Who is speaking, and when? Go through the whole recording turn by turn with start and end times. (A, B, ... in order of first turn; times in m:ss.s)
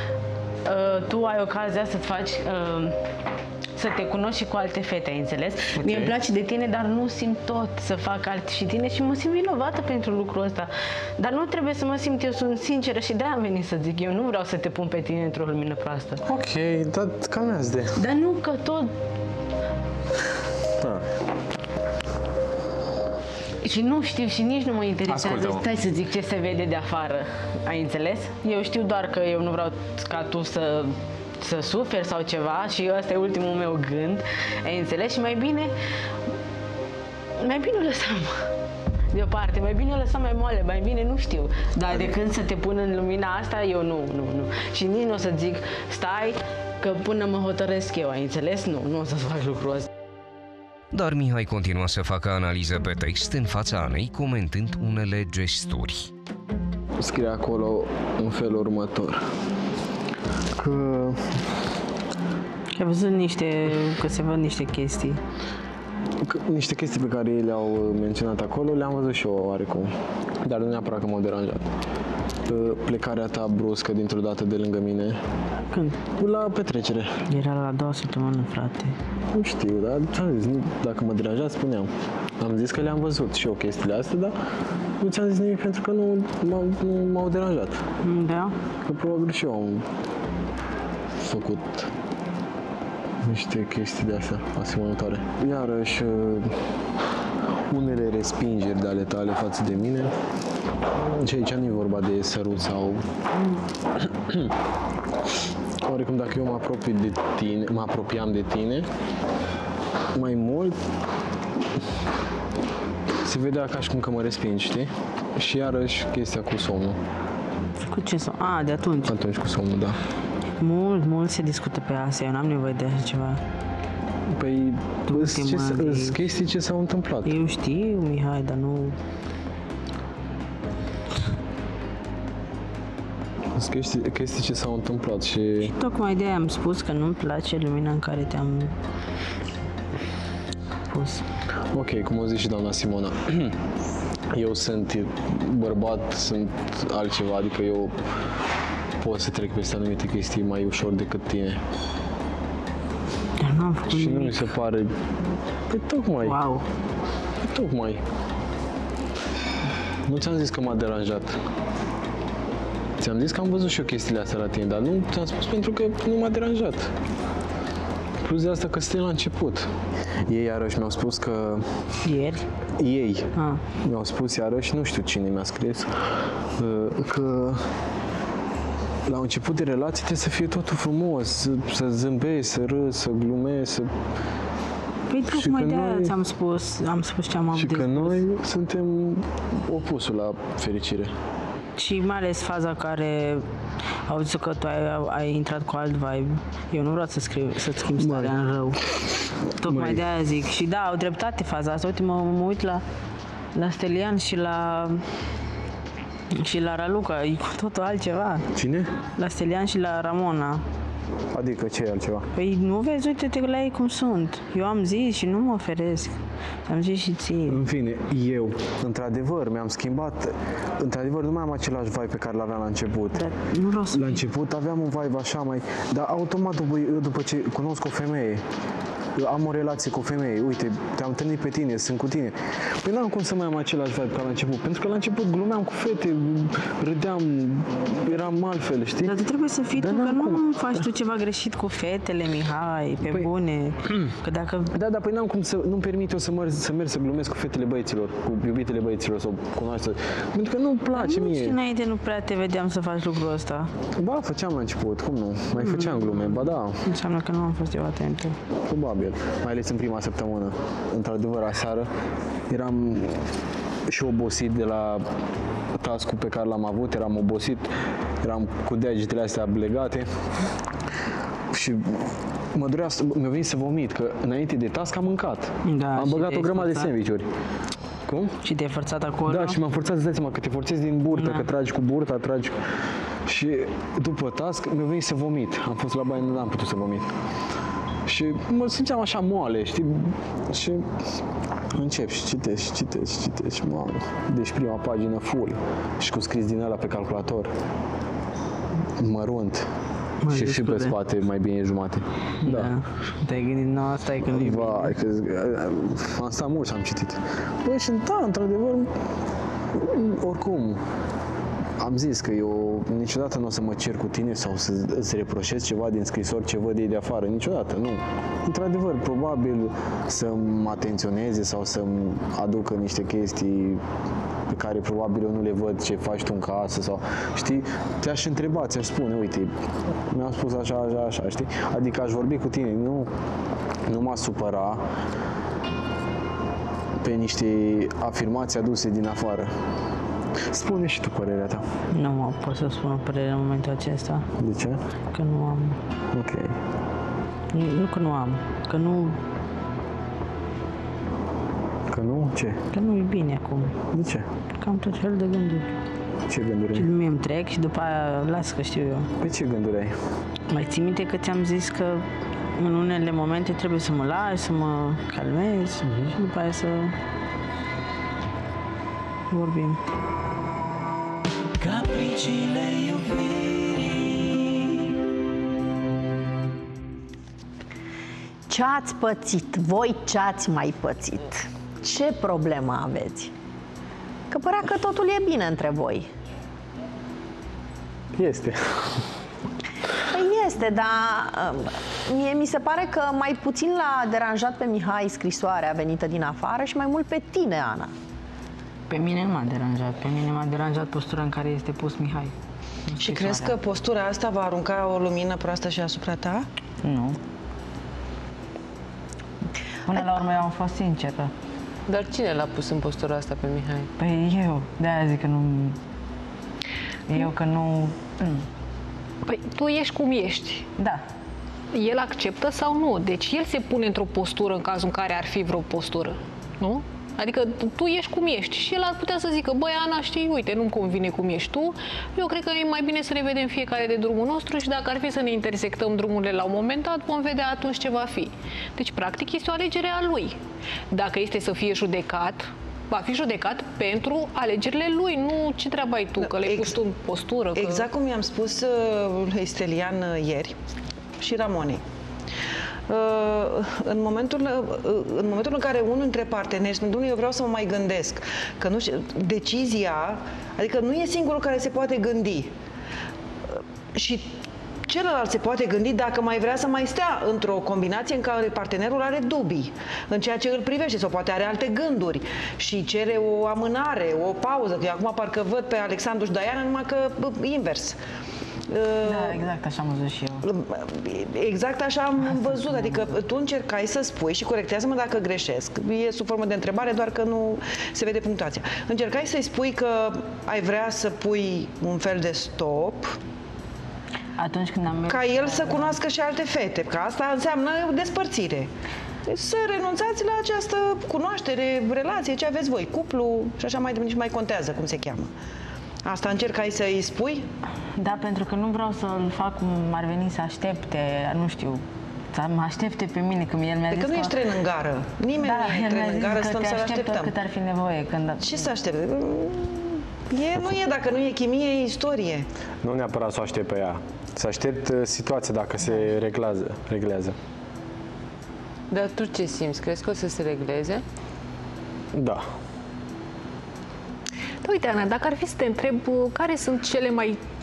0:00.6-0:02.9 A
0:03.8-0:16.2 A
0:05.7-0:06.1 B
0:16.2-0:18.0 B
0:17.9-0:18.9 A
0:23.6-0:35.7 A
0:25.1-0:25.6 B
0:37.4-0:38.5 A
0:39.1-0:49.9 A
0:50.9-0:56.1 C
0:57.0-0:59.2 B
1:00.6-1:01.2 B
1:02.8-1:05.2 A
1:06.2-1:09.9 B
1:10.4-1:11.7 B
1:12.4-1:15.2 B
1:15.7-1:16.0 A
1:16.2-1:17.1 B
1:17.3-1:19.0 A
1:19.3-1:24.3 B
1:25.0-1:27.8 B
1:28.0-1:28.5 A
1:28.8-1:29.8 B
1:31.2-1:31.9 B
1:33.2-1:36.5 B
1:37.7-1:40.1 B
1:41.0-1:43.1 B
1:44.0-1:44.5 B
1:45.8-1:48.9 B
1:50.1-1:50.8 B
1:53.2-1:57.0 B
1:57.8-1:59.1 A
1:59.0-2:00.0 B
2:00.6-2:03.4 A
2:04.3-2:07.3 B
2:05.1-2:06.2 A
2:07.2-2:09.0 A
2:13.6-2:15.7 B
2:15.6-2:18.7 A
2:20.9-2:21.2 A
2:21.7-2:23.6 B
2:24.3-2:27.9 B
2:29.0-2:31.6 B
2:33.4-2:34.5 A
2:33.9-2:35.1 B
2:35.7-2:36.4 B
2:36.2-2:36.6 A
2:37.4-2:38.0 B
2:40.0-2:41.4 B
2:43.0-2:46.9 B
2:48.2-2:49.7 B
2:50.3-2:51.6 B
2:52.0-2:52.4 A
2:52.8-2:53.3 B
2:53.3-2:53.6 A
2:53.8-2:55.9 B
2:56.6-2:57.7 B
2:59.1-3:03.9 B
3:05.1-3:08.2 A
3:05.3-3:06.2 B
3:07.5-3:11.1 B
3:11.8-3:13.4 A
3:14.0-3:18.9 A
3:17.9-3:18.4 B
3:19.6-3:22.8 A
3:19.6-3:20.0 B
3:23.5-3:25.0 A
3:26.3-3:28.5 A
3:28.5-3:28.9 B
3:29.1-3:30.6 A
3:31.3-3:32.3 B
3:32.3-3:37.6 A
3:37.5-3:43.2 B
3:43.1-3:44.2 A
3:43.9-3:48.4 B
3:49.2-3:59.2 B
3:59.0-4:04.7 A
3:59.8-4:00.8 B
4:04.7-4:11.6 B
4:10.9-4:13.7 A
4:14.0-4:16.8 B
4:15.6-4:18.4 A
4:18.6-4:21.9 B
4:22.5-4:23.3 B
4:23.9-4:25.0 B
4:25.8-4:30.1 B
4:31.5-4:37.3 B
4:35.6-4:36.9 A
4:38.1-4:38.4 B
4:38.4-4:39.6 A
4:39.2-4:42.6 B
4:41.1-4:41.5 A
4:43.2-4:47.1 B
4:48.0-4:50.9 B
4:51.7-4:57.5 B
4:59.0-4:59.7 B
5:00.2-5:00.9 A
5:00.3-5:02.7 B
5:02.4-5:05.0 A
5:04.2-5:08.9 B
5:09.7-5:10.8 B
5:11.8-5:23.8 B
5:24.5-5:29.5 B
5:30.1-5:33.1 B
5:33.9-5:34.8 B
5:37.0-5:39.5 B
5:40.5-5:41.6 B
5:41.9-5:44.3 A
5:44.4-5:44.8 B
5:45.1-5:45.8 A
5:46.1-5:46.6 B
5:47.5-5:49.2 A
5:51.9-5:52.6 B
5:52.7-5:53.8 A
5:53.9-5:54.3 B
5:54.6-5:55.8 A
5:56.3-5:56.9 B
5:56.7-5:59.1 A
5:59.2-6:00.0 B
6:00.5-6:07.0 A
6:05.8-6:06.1 B
6:09.3-6:09.8 A
6:11.8-6:13.9 B
6:18.5-6:23.3 D
6:24.3-6:26.1 D
6:28.1-6:29.0 B
6:30.1-6:37.9 D
6:38.9-6:42.3 A
6:42.9-6:43.6 A
6:43.0-6:46.4 E
6:46.8-6:47.2 A
6:49.9-6:51.3 A
6:51.9-6:53.9 F
6:54.0-6:55.8 A
6:57.1-6:58.4 A
6:59.2-7:00.6 G
7:00.8-7:01.0 A
7:01.7-7:20.4 G
7:20.9-7:27.9 G
7:26.2-7:26.8 E
7:27.6-7:30.5 E
7:31.2-7:31.8 E
7:32.9-7:42.5 E
7:43.9-7:44.3 E
7:44.9-7:58.0 E
7:58.7-7:59.4 E
7:59.0-8:00.5 A
8:00.7-8:13.2 E
8:02.3-8:03.1 A
8:14.4-8:16.0 A
8:15.1-8:18.7 E
8:19.3-8:25.3 E
8:26.0-8:27.4 E
8:28.0-8:34.3 A
8:33.9-8:37.3 E
8:35.4-8:38.7 A
8:38.4-8:42.4 E
8:42.8-8:47.4 B
8:48.9-8:51.0 F
8:52.1-8:52.4 B
8:54.6-8:57.4 G